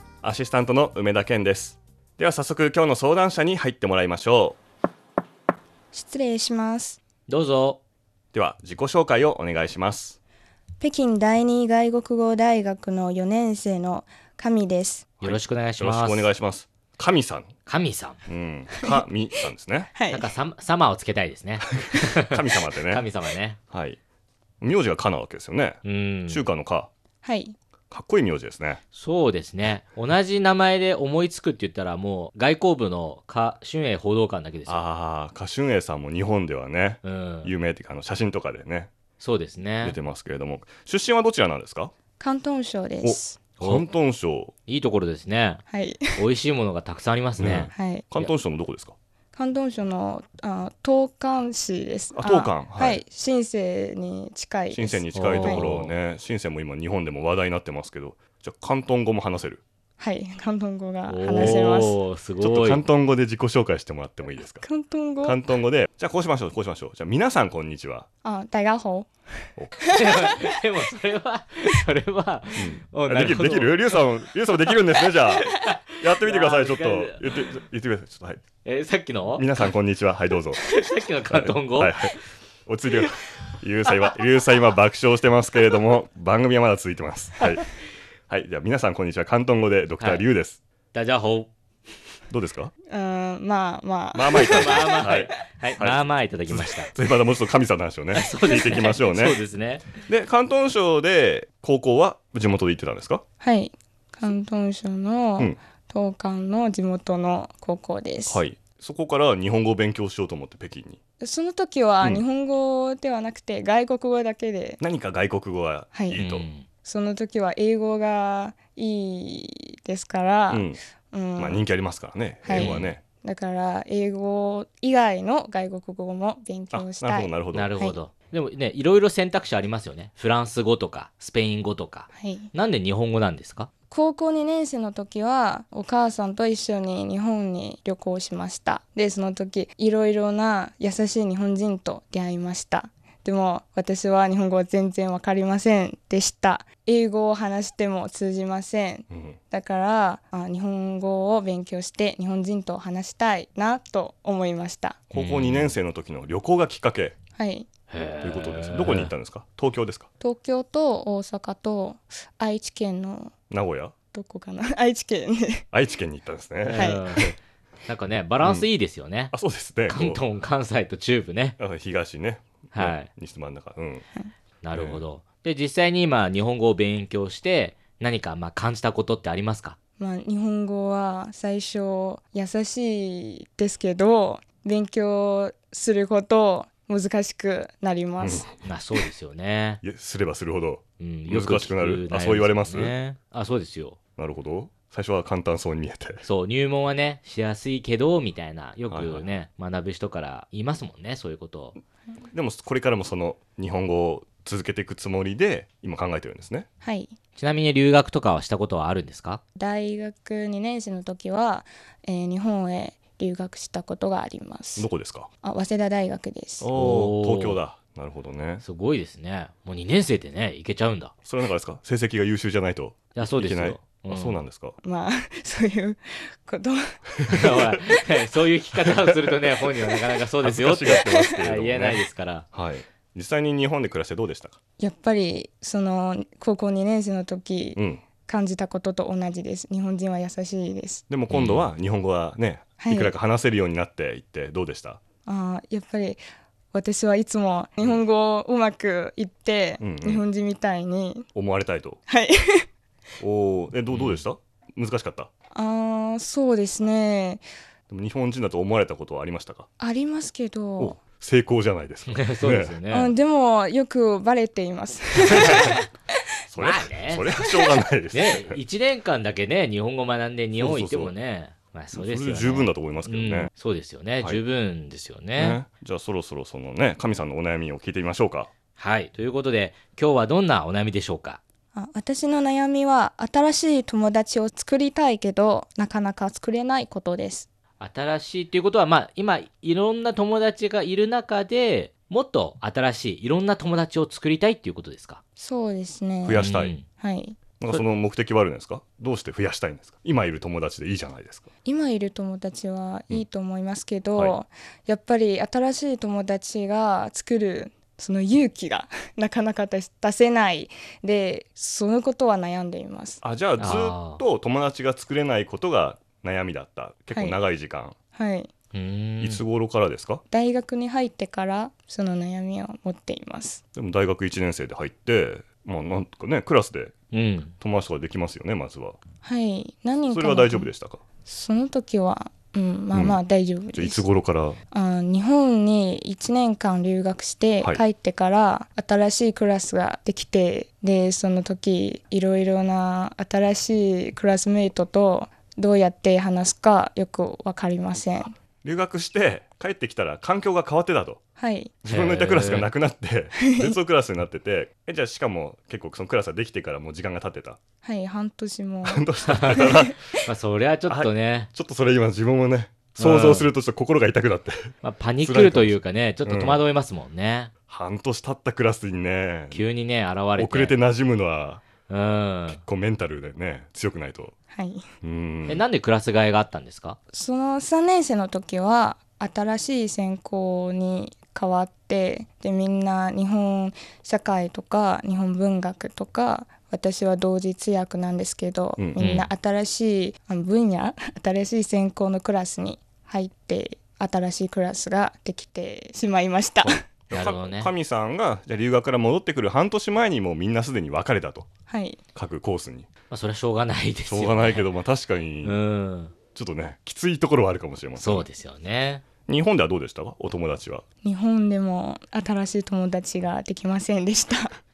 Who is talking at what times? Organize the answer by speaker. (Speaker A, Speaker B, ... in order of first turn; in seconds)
Speaker A: 0.2-4.6, 8.3-10.2, 15.2-17.5, 18.3-19.9, 21.8-23.0, 23.7-24.0, 24.6-26.9, 27.9-28.8, 34.7-38.9, 39.8-41.9, 43.0-44.5, 47.4-48.9, 52.1-53.0, 54.7-59.6, 61.3-61.7, 62.4-64.7, 65.2-68.0, 72.6-78.4, 79.4-80.6, 81.3-87.7, 88.3-90.6, 92.3-92.7, 94.1-99.4, 100.1-103.2, 108.3-111.0, 114.8-116.5, 120.5-120.8, 121.4-123.0, 126.7-127.7, 149.1-149.4, 155.1-157.1, 158.2-160.1, 163.5-163.9, 165.7-167.3, 168.4-168.7, 169.3-170.2, 171.6-174.0, 174.7-175.0, 188.2-188.5, 189.8-192.9, 194.2-196.2, 198.9-199.2, 202.3-206.7, 214.8-215.3, 216.6-218.6, 221.2-224.8, 227.3-227.7, 228.8-229.7, 230.4-232.0, 232.5-234.6, 237.8-238.0, 241.1-245.0, 249.8-250.2, 251.3-252.0, 253.2-255.3, 257.9-259.7, 260.8-262.7, 265.3-265.7, 266.5-268.6, 270.6-271.1, 271.9-273.5, 275.4-278.5, 296.2-296.7, 297.6-301.5, 313.2-317.9, 319.2-320.2, 323.8-326.9, 327.6-329.0, 330.1-331.0, 332.9-333.2, 333.7-334.6, 348.6-351.2, 351.8-357.6, 358.8-360.0, 360.9-366.6, 367.7-369.6, 370.4-371.6, 372.5-374.3, 375.0-375.6, 388.8-389.2, 396.6-401.5, 402.1-402.9, 404.1-405.5, 406.3-408.2, 409.3-410.8
Speaker B: 5.9-7.0, 10.8-15.1, 19.9-20.3, 27.2-27.6, 42.2-43.4, 45.7-46.2, 47.7-48.1, 49.3-55.7, 60.0-62.0, 64.6-65.4, 68.2-69.1, 69.9-70.3, 92.9-95.2, 103.4-108.4, 111.2-114.8, 115.9-116.2, 116.8-121.7, 122.4-128.0, 132.1-132.5, 133.9-155.0, 157.3-157.7, 160.2-163.3, 164.1-165.6, 166.7-167.2, 180.0-188.5, 206.8-207.1, 209.6-214.9, 215.4-216.7, 224.8-227.0, 231.0-231.4, 234.8-241.0, 242.8-243.1, 245.2-246.2, 246.7-251.3, 252.1-252.7, 255.5-257.4, 259.8-261.0, 262.9-265.8, 281.7-287.5, 295.4-297.4, 301.6-313.2, 317.1-317.4, 318.1-318.5, 320.3-323.6, 329.2-330.7, 331.2-334.0, 334.7-348.3, 351.4-351.8, 353.4-353.8, 357.8-359.9, 374.5-374.8, 377.1-396.8, 401.7-402.0, 411.0-414.6
Speaker C: 7.3-7.8, 15.2-16.3, 17.6-18.2, 20.1-22.3, 22.9-23.6, 25.8-26.4, 28.9-34.8, 37.0-37.5, 39.2-40.0, 43.6-43.8, 44.6-45.6, 46.1-48.3, 55.1-55.9, 61.1-62.8, 69.9-74.0, 74.6-77.5, 78.6-79.7, 80.5-82.2, 90.9-91.5, 94.4-96.9, 98.1-99.8, 116.1-116.7, 122.5-122.9, 127.5-133.7, 155.1-155.7, 157.9-159.1, 166.6-169.3, 169.9-171.6, 172.7-173.1, 174.6-179.8, 188.6-189.8, 191.0-194.0, 196.2-201.8, 207.4-209.4, 216.7-217.6, 218.6-221.1, 223.1-224.4, 227.3-232.4, 241.3-241.7, 253.9-254.2, 262.1-263.1, 265.2-265.7, 266.6-267.2, 268.1-275.6, 278.8-281.4, 287.8-295.2, 296.4-296.8, 313.6-314.2, 318.7-319.4, 327.1-327.5, 351.9-352.7, 359.3-359.7, 360.2-361.5, 363.0-363.5, 364.8-367.5, 369.5-370.7, 371.9-372.6, 375.5-377.0, 389.0-389.3, 397.1-397.7, 403.1-404.6, 405.4-406.1, 408.0-409.0